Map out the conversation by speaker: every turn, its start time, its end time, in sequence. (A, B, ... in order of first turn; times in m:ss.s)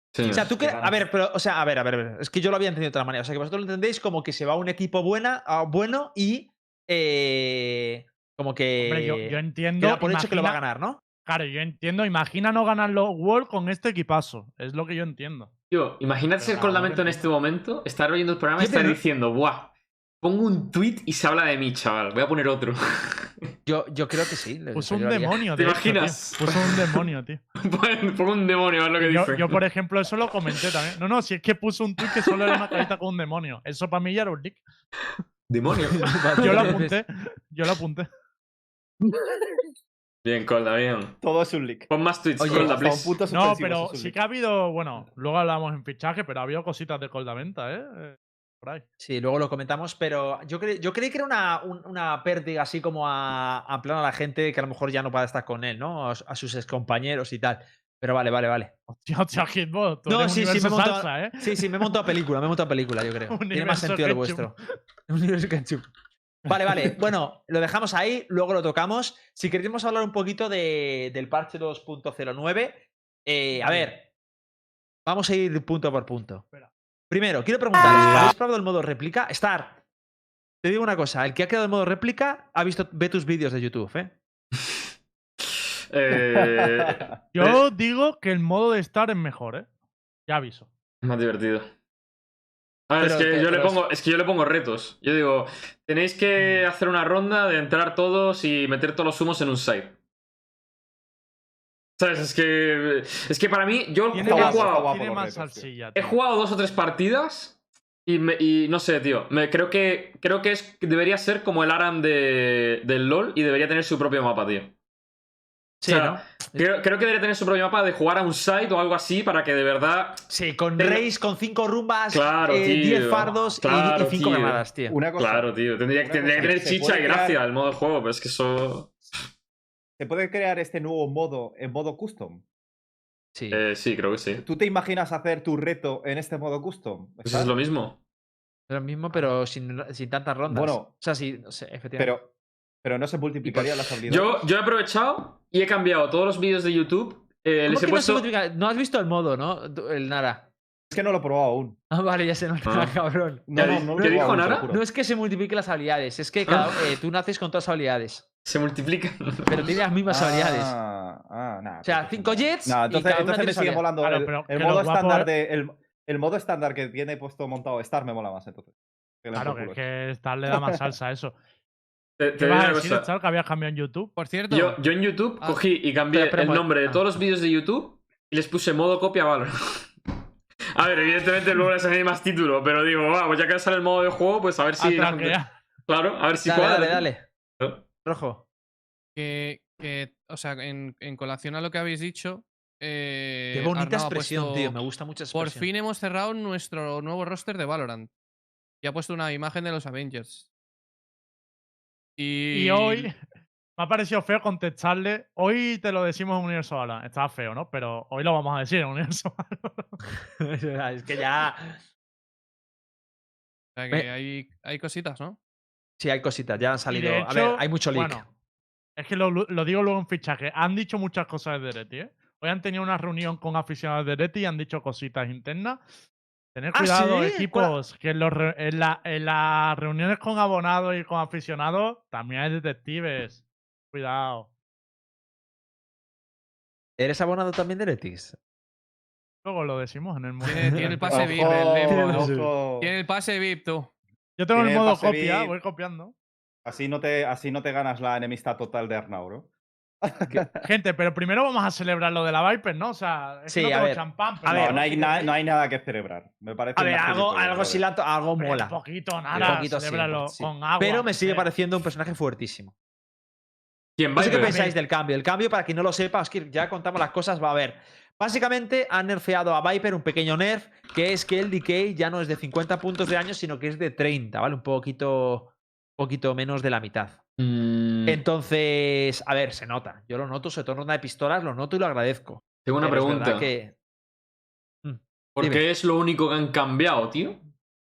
0:00.1-0:00.5 A
0:00.2-0:01.0 B
0:00.2-0:11.0 C
0:08.8-0:10.6 D
0:11.2-0:15.5 D
0:15.7-0:23.3 A
0:16.4-0:17.3 D
0:18.6-0:19.0 C
0:23.7-0:25.5 C
0:24.7-0:27.4 D
0:25.5-0:27.0 A
0:27.6-0:29.6 A
0:29.0-0:34.6 D
0:32.0-0:32.8 A
0:35.5-0:36.7 A
0:36.0-0:37.0 C
0:36.4-0:38.1 D
0:40.2-0:41.2 A
0:41.2-0:41.9 B
0:41.9-0:43.2 A
0:42.4-0:42.9 C
0:42.4-0:44.1 B
0:43.3-0:48.8 D
0:49.0-0:58.7 C
0:58.9-1:02.0 D
1:00.1-1:04.5 C
1:03.3-1:04.5 D
1:05.1-1:05.9 C
1:06.4-1:14.1 C
1:13.5-1:13.9 D
1:15.0-1:16.4 C
1:17.1-1:19.8 C
1:17.8-1:18.3 A
1:20.6-1:24.2 C
1:25.9-1:27.6 A
1:26.1-1:27.1 B
1:27.3-1:29.7 D
1:30.3-1:30.7 D
1:31.0-1:31.7 A
1:32.9-1:40.0 A
1:33.0-1:33.8 C
1:36.4-1:36.6 D
1:42.0-1:44.9 A
1:44.1-1:46.2 D
1:44.2-1:45.7 B
1:46.0-1:54.7 A
1:55.8-1:56.6 C
1:55.8-2:00.2 A
2:00.3-2:05.0 C
2:00.8-2:01.0 A
2:02.1-2:09.2 A
2:04.9-2:07.4 B
2:10.0-2:12.4 B
2:13.3-2:13.6 C
2:13.5-2:14.4 A
2:14.4-2:17.5 B
2:17.2-2:18.0 A
2:18.7-2:22.1 C
2:20.5-2:20.9 B
2:22.0-2:22.3 B
2:22.8-2:24.5 B
2:24.0-2:28.3 A
2:27.6-2:30.5 C
2:30.9-2:31.8 B
2:31.9-2:38.2 C
2:32.6-2:32.9 A
2:33.5-2:34.8 B
2:33.5-2:34.7 A
2:36.5-2:36.9 A
2:38.4-2:39.7 A
2:39.5-2:40.7 C
2:40.1-2:49.8 B
2:41.8-2:43.8 C
2:44.0-2:45.3 D
2:49.3-2:51.3 D
2:52.2-2:53.1 A
2:52.4-2:54.1 D
2:54.2-2:54.8 E
2:54.5-2:59.9 A
2:56.1-2:57.0 C
3:00.7-3:07.8 A
3:04.8-3:05.5 D
3:06.4-3:07.2 C
3:08.0-3:08.4 C
3:09.2-3:14.8 E
3:13.5-3:15.7 C
3:15.3-3:18.1 E
3:18.8-3:20.5 E
3:22.2-3:23.1 E
3:22.5-3:23.2 D
3:23.8-3:30.0 D
3:30.4-3:31.8 C
3:33.8-3:35.4 E
3:36.0-3:38.3 C
3:36.9-3:38.2 D
3:39.0-3:45.8 D
3:46.5-3:54.5 D
3:46.7-3:47.7 C
3:57.0-3:58.4 C
3:59.4-4:01.5 D
4:00.4-4:03.9 E
4:01.1-4:02.9 B
4:01.8-4:02.5 C
4:04.4-4:06.1 D
4:04.5-4:05.5 B
4:06.6-4:09.5 B
4:10.0-4:10.6 B
4:10.6-4:15.3 D
4:13.5-4:15.0 C
4:14.5-4:17.8 B
4:16.8-4:18.8 C
4:18.4-4:21.5 D
4:19.3-4:22.7 C
4:24.0-4:24.6 A
4:24.2-4:37.2 C
4:24.4-4:24.7 D
4:37.4-4:38.2 A
4:38.0-4:43.7 C
4:42.6-4:43.5 A
4:44.8-4:45.6 C
4:45.3-4:47.4 A